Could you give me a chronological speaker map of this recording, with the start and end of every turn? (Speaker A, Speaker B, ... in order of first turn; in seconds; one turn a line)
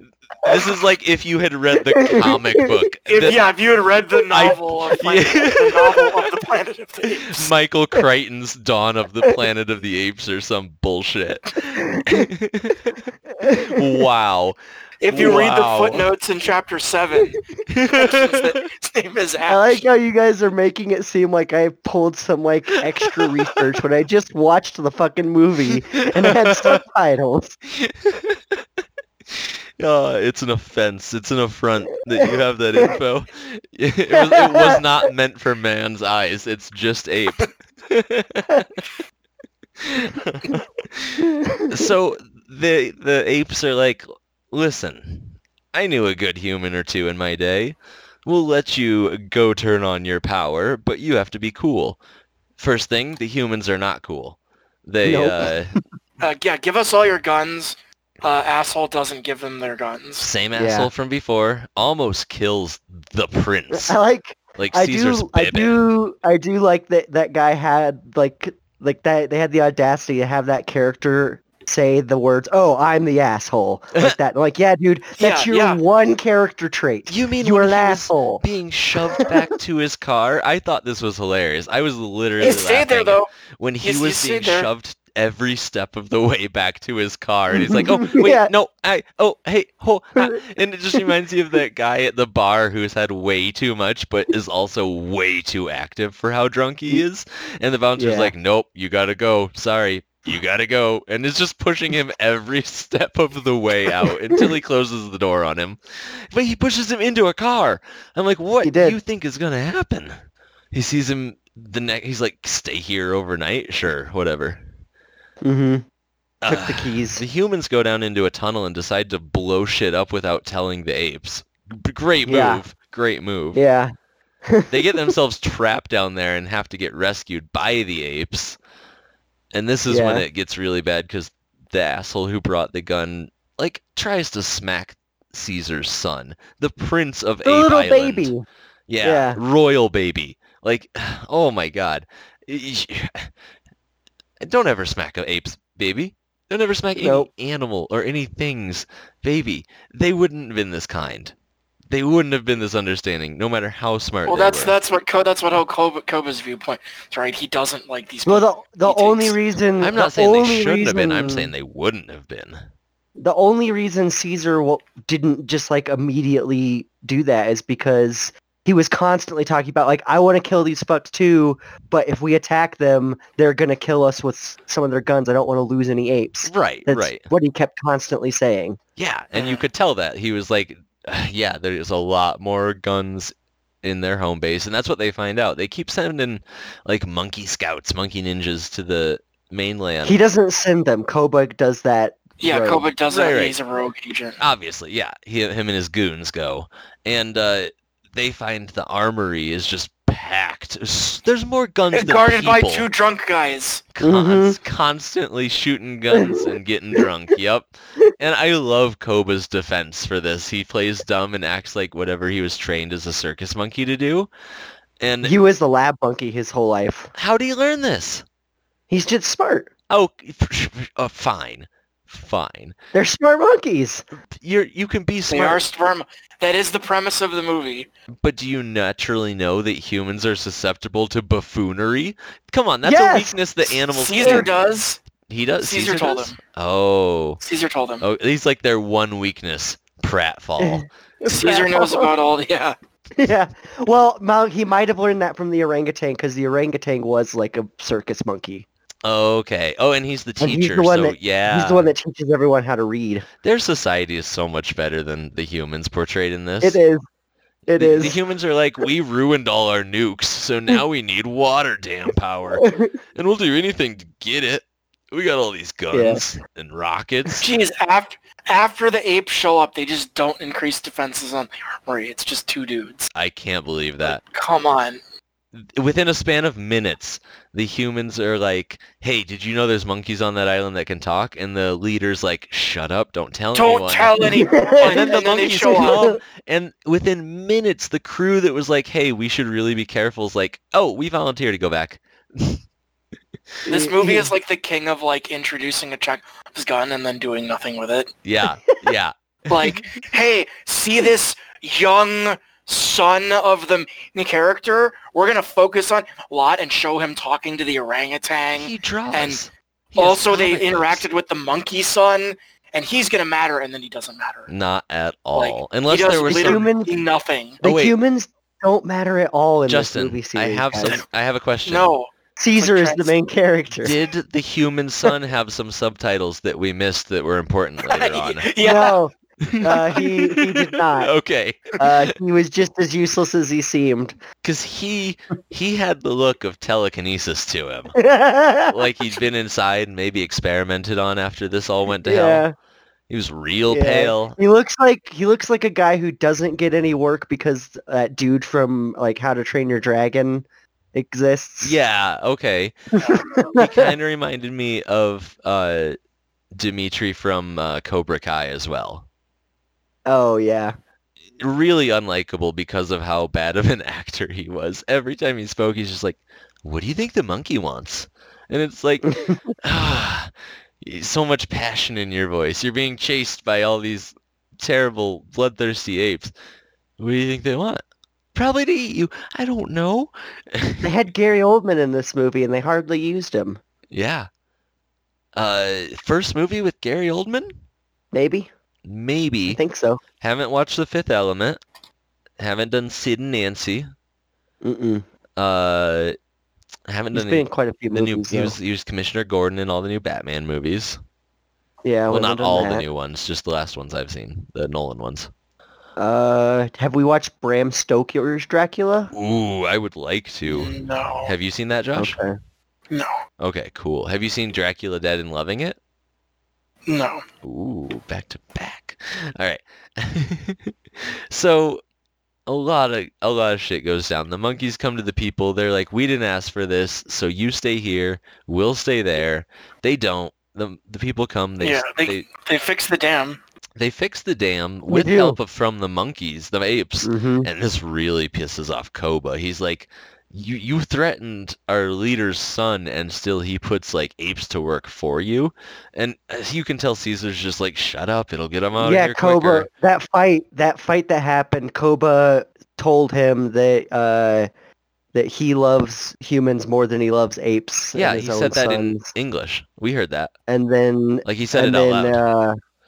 Speaker A: 0.4-3.4
Speaker B: 1.9-2.7
Speaker C: 3.1-7.5
Speaker A: 4.3-6.3
Speaker A: 7.2-14.6
Speaker B: 11.8-12.3
Speaker B: 13.4-13.8
Speaker C: 15.0-17.4
Speaker A: 15.1-16.1
Speaker B: 15.1-15.4
Speaker A: 17.7-18.6
Speaker C: 17.9-19.8
Speaker B: 19.5-27.6
Speaker A: 26.2-26.8
Speaker A: 27.7-28.6
Speaker A: 29.3-38.8
Speaker B: 34.1-34.8
Speaker A: 39.8-52.0
Speaker B: 41.2-41.9
Speaker A: 52.6-55.7
Speaker B: 55.0-55.8
Speaker C: 56.2-60.3
Speaker A: 60.2-64.0
Speaker B: 60.5-60.9
Speaker B: 63.7-78.4
Speaker A: 64.6-65.8
Speaker C: 75.2-75.8
Speaker A: 77.1-110.2
Speaker C: 82.4-83.3
Speaker C: 83.8-84.7
Speaker B: 87.5-88.5
Speaker B: 98.0-98.3
Speaker B: 108.6-109.0
Speaker A: 110.7-114.6
Speaker B: 115.4-115.8
Speaker A: 116.4-123.6
Speaker B: 116.5-117.2
Speaker B: 122.2-122.6
Speaker B: 123.5-123.9
Speaker B: 124.5-125.1
Speaker A: 124.7-128.6
Speaker A: 129.5-138.3
Speaker B: 129.9-130.2
Speaker B: 137.4-138.4
Speaker A: 138.9-143.3
Speaker B: 139.0-139.4
Speaker A: 144.4-151.3
Speaker B: 146.9-147.3
Speaker A: 151.9-154.8
Speaker C: 154.2-159.3
Speaker B: 158.2-161.5
Speaker A: 159.8-162.6
Speaker B: 163.2-178.8
Speaker A: 176.4-177.3
Speaker A: 179.0-190.2
Speaker C: 179.3-179.6
Speaker B: 190.0-192.9
Speaker C: 192.4-194.4
Speaker A: 193.1-193.6
Speaker A: 194.4-202.9
Speaker C: 201.9-203.9
Speaker A: 203.9-214.3
Speaker B: 204.0-204.6
Speaker B: 206.1-206.4
Speaker A: 215.0-215.3
Speaker B: 215.2-217.1
Speaker A: 217.2-218.2
Speaker B: 218.9-219.7
Speaker A: 219.9-222.8
Speaker B: 222.9-224.1
Speaker A: 224.3-225.6
Speaker C: 225.3-227.9
Speaker A: 228.2-234.6
Speaker B: 232.8-234.5
Speaker C: 233.9-235.0
Speaker A: 235.2-237.4
Speaker C: 235.6-236.4
Speaker C: 237.4-238.0
Speaker A: 238.0-240.8
Speaker B: 240.6-242.1
Speaker C: 241.2-242.7
Speaker B: 243.2-248.7
Speaker A: 249.0-251.9
Speaker B: 250.4-253.2
Speaker A: 253.4-256.8
Speaker B: 256.6-257.0
Speaker B: 257.7-258.2
Speaker A: 257.7-267.5
Speaker B: 262.6-262.9
Speaker B: 265.9-266.2
Speaker C: 267.4-273.1
Speaker A: 273.1-274.2
Speaker C: 274.2-275.0
Speaker A: 275.5-292.6
Speaker C: 283.5-286.0
Speaker B: 284.2-286.2
Speaker B: 293.6-294.3
Speaker C: 293.7-298.1
Speaker A: 298.2-299.9
Speaker C: 299.5-309.4
Speaker A: 308.5-311.0
Speaker C: 310.0-314.5
Speaker A: 314.5-316.7
Speaker C: 315.4-317.6
Speaker B: 316.2-316.9
Speaker A: 317.6-317.9
Speaker B: 317.6-321.0
Speaker A: 319.7-321.9
Speaker C: 321.6-323.1
Speaker B: 322.4-323.9
Speaker A: 323.8-328.5
Speaker C: 327.8-329.0
Speaker B: 328.6-331.1
Speaker A: 329.4-332.0
Speaker B: 331.8-334.2
Speaker A: 334.4-337.9
Speaker B: 337.9-338.7
Speaker A: 338.7-342.4
Speaker B: 342.0-342.5
Speaker A: 343.1-344.4
Speaker B: 343.7-351.7
Speaker A: 351.6-352.9
Speaker B: 353.0-353.9
Speaker A: 353.5-355.9
Speaker A: 356.5-359.1
Speaker B: 360.1-360.8
Speaker A: 361.4-376.3
Speaker B: 369.1-369.5
Speaker A: 377.0-377.8
Speaker A: 378.3-380.9
Speaker B: 380.8-383.6
Speaker A: 383.9-384.3
Speaker A: 385.4-387.5
Speaker B: 388.1-388.5
Speaker A: 388.8-389.6
Speaker B: 389.5-390.0
Speaker A: 390.2-391.6
Speaker A: 392.4-393.9
Speaker B: 394.6-395.1
Speaker A: 395.4-396.1
Speaker A: 396.9-401.0
Speaker B: 397.1-398.6
Speaker B: 401.8-402.8
Speaker A: 402.1-405.3
Speaker B: 406.0-409.1
Speaker A: 409.1-410.7
Speaker C: 410.5-411.3
Speaker A: 411.2-412.2
Speaker B: 412.0-412.4
Speaker A: 413.4-415.8
Speaker C: 416.9-417.2
Speaker A: 417.4-421.8
Speaker A: 422.5-432.3
Speaker C: 431.6-433.4
Speaker A: 433.8-449.7
Speaker B: 434.9-435.4
Speaker B: 437.0-437.5
Speaker B: 448.8-454.5
Speaker B: 455.1-459.1
Speaker A: 457.9-460.3
Speaker B: 460.5-462.6
Speaker A: 461.2-462.2